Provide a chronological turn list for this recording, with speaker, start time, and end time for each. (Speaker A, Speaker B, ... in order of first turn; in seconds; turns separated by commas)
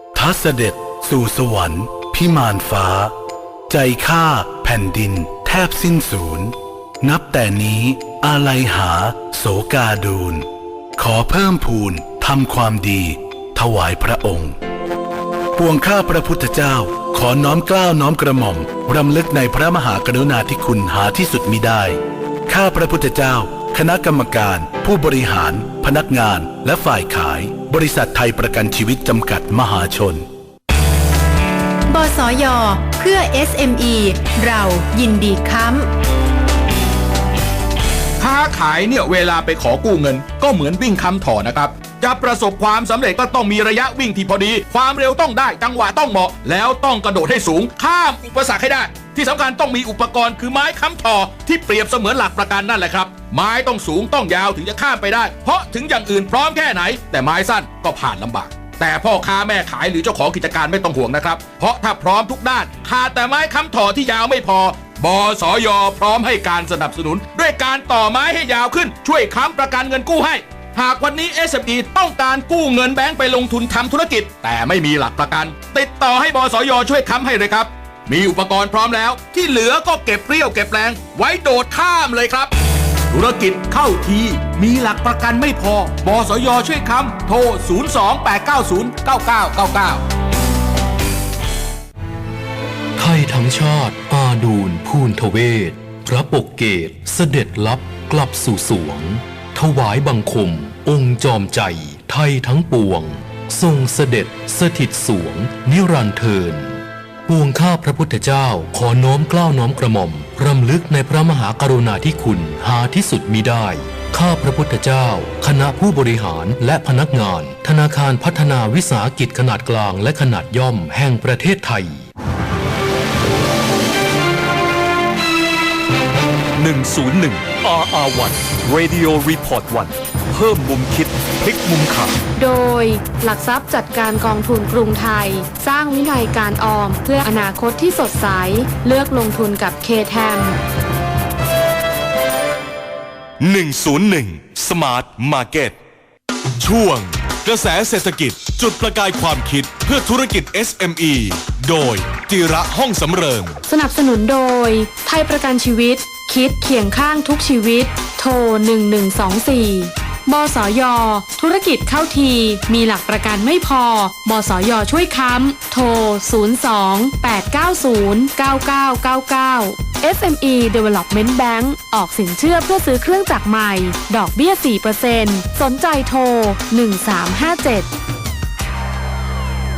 Speaker A: 0.1-3.1, Speaker A: 3.7-10.5, Speaker A: 11.0-14.6, Speaker A: 15.6-30.3, Speaker B: 31.9-35.9, Speaker C: 38.2-82.5, Speaker C: 83.1-90.0, Speaker D: 93.0-122.0, Speaker E: 126.6-132.2, Speaker F: 132.4-140.6, Speaker E: 143.4-145.8, Speaker E: 146.6-153.6, Speaker F: 153.6-177.9